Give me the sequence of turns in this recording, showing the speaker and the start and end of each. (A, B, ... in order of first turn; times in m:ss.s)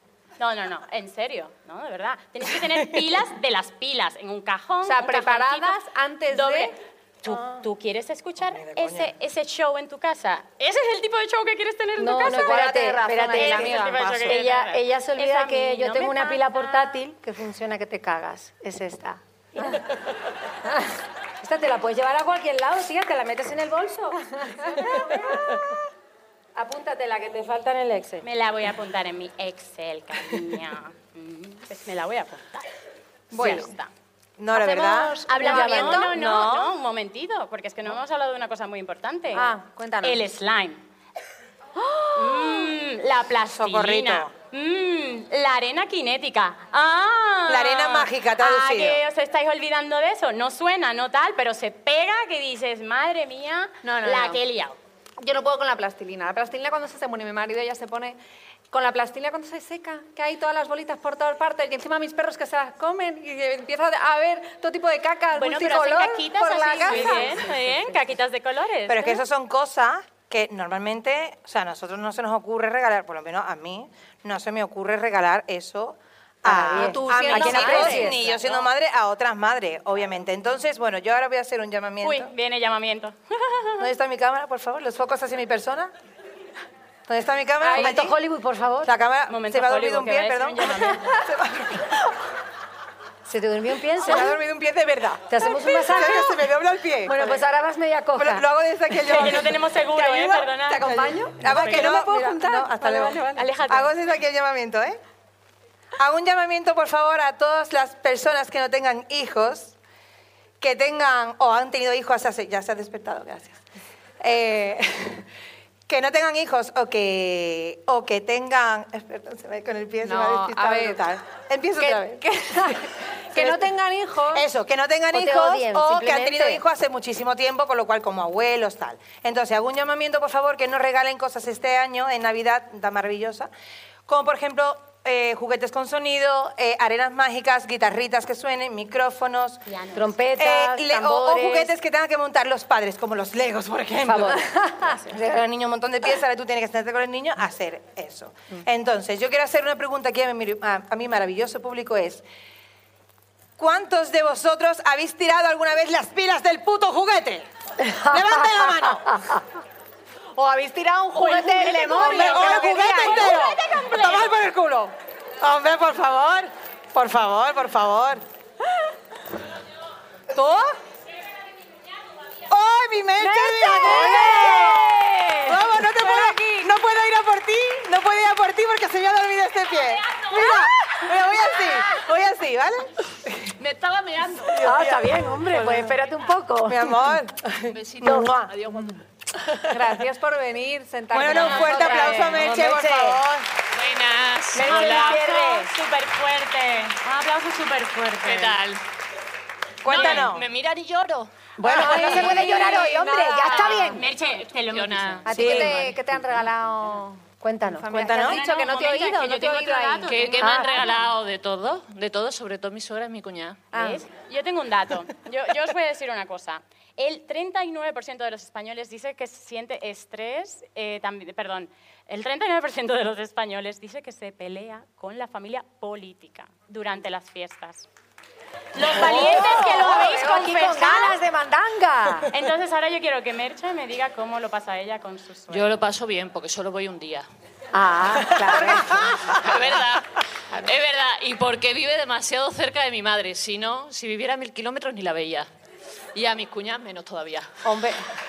0:00.4-0:12.7 A
0:04.8-0:06.7 B
0:08.4-0:09.1 C
0:12.0-0:19.9 D
0:12.2-0:14.1 B
0:13.3-0:17.0 A
0:13.8-0:14.4 C
0:21.4-0:25.5 D
0:26.6-0:28.3 D
0:28.2-0:32.7 A
0:33.3-0:33.7 B
0:33.3-0:33.9 A
0:33.4-0:33.6 C
0:34.4-0:36.7 C
0:34.6-0:36.2 B
0:35.3-0:40.8 A
0:35.4-0:36.0 D
0:39.3-0:40.2 B
0:42.1-0:54.8 A
0:43.5-0:44.3 C
0:47.5-0:49.0 C
0:54.0-0:54.4 D
0:54.0-0:54.3 B
0:55.2-0:58.2 B
0:58.7-1:07.6 B
1:05.4-1:09.2 A
1:06.9-1:07.6 D
1:08.9-1:22.3 C
1:16.4-1:18.3 D
1:16.5-1:18.2 B
1:22.0-1:23.9 A
1:23.8-1:25.9 C
1:27.1-1:28.2 C
1:27.6-1:28.9 D
1:28.8-1:32.0 C
1:29.3-1:31.2 A
1:33.3-1:34.4 D
1:34.0-1:37.4 C
1:35.3-1:36.4 D
1:37.0-1:38.4 D
1:38.1-1:40.2 C
1:39.0-1:41.9 A
1:40.6-1:43.2 B
1:40.8-1:45.0 C
1:43.3-1:43.9 A
1:46.0-1:49.8 C
1:50.6-1:53.6 C
1:54.2-1:55.2 C
1:55.9-2:03.7 C
2:00.0-2:01.0 B
2:01.8-2:02.8 B
2:03.3-2:04.4 B
2:04.3-2:13.5 C
2:05.1-2:06.6 D
2:14.1-2:19.6 C
2:19.7-2:20.2 A
2:20.0-2:21.7 D
2:20.4-2:32.2 C
2:24.0-2:25.3 D
2:33.6-2:37.4 C
2:37.8-2:38.8 D
2:38.0-2:39.2 C
2:40.4-2:43.4 D
2:41.8-2:44.4 A
2:41.9-2:48.2 C
2:41.9-2:42.2 B
2:50.3-2:50.7 C
2:52.5-3:02.9 C
2:53.2-2:56.3 D
3:03.6-3:04.7 E
3:04.5-3:06.0 C
3:04.5-3:07.1 D
3:06.7-3:08.2 C
3:07.7-3:09.0 E
3:08.0-3:08.5 D
3:09.6-3:12.6 B
3:11.1-3:13.5 C
3:11.4-3:11.7 E
3:11.7-3:13.2 D
3:13.7-3:15.2 E
3:14.6-3:15.7 D
3:14.6-3:18.6 A
3:18.2-3:18.8 E
3:19.8-3:20.4 C
3:19.8-3:21.3 E
3:19.9-3:20.2 A
3:21.6-3:24.0 D
3:21.6-3:23.4 C
3:21.6-3:23.9 B
3:22.0-3:22.4 E
3:23.4-3:25.3 A
3:23.5-3:23.8 E
3:24.7-3:26.4 E
3:25.3-3:30.3 B
3:25.3-3:25.8 C
3:27.4-3:27.9 D
3:27.9-3:28.4 C
3:28.1-3:31.0 A
3:30.1-3:33.7 E
3:30.4-3:30.8 D
3:33.7-3:34.0 B
3:33.7-3:47.9 A
3:48.7-3:51.2 A
3:48.9-3:52.3 D
3:49.0-3:50.4 B
3:52.3-3:55.7 A
3:55.5-3:57.3 E
3:57.7-3:59.4 D
3:58.4-3:59.3 C
3:59.3-4:05.5 E
4:06.1-4:07.5 E
4:07.7-4:08.0 C